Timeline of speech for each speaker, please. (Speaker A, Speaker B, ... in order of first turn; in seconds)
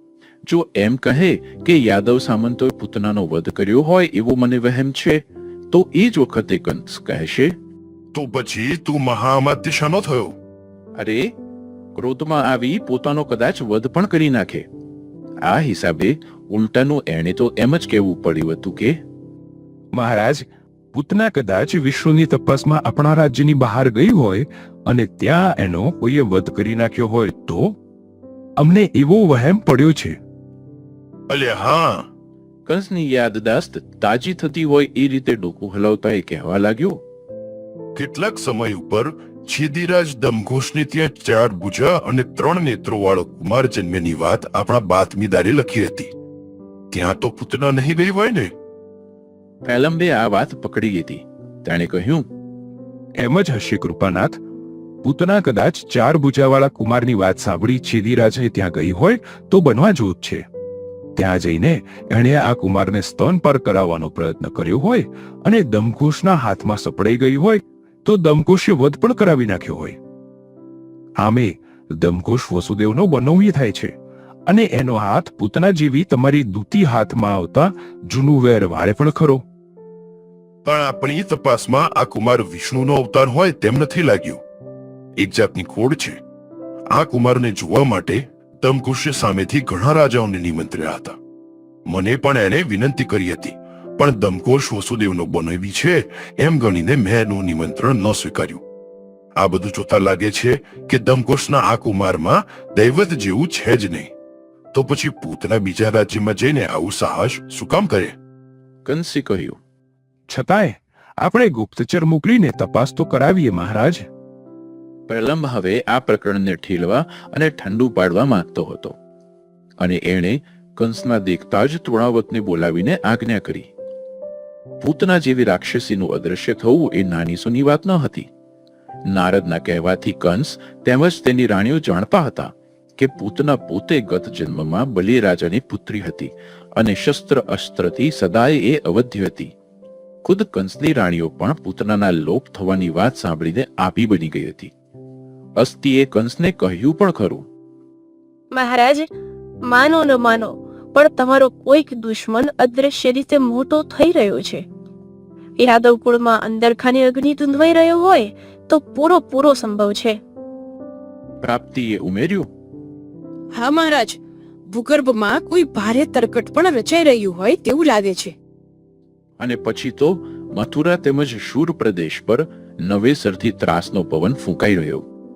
Speaker A: 0.5-7.5, 11.0-11.3, 11.9-14.7, 15.4-19.0, 32.7-37.0, 49.6-52.3, 108.8-109.6, 115.1-119.0, 119.8-123.7, 124.8-128.3, 129.1-139.5, 140.2-144.7, 145.6-147.4, 161.4-162.5, 169.4-175.0
Speaker B: 8.1-10.3, 31.3-32.1, 37.9-46.1, 46.9-48.5, 80.6-84.4, 85.2-86.2, 86.9-91.2, 91.8-98.6, 99.4-104.1, 104.7-108.1
Speaker C: 19.9-27.8, 28.6-30.2, 53.2-54.4, 55.0-60.4, 61.1-70.0, 71.2-73.9, 74.5-79.4, 110.3-114.1
Speaker D: 148.5-149.1, 149.6-154.6, 155.6-160.2
Speaker E: 163.6-164.2, 164.7-168.3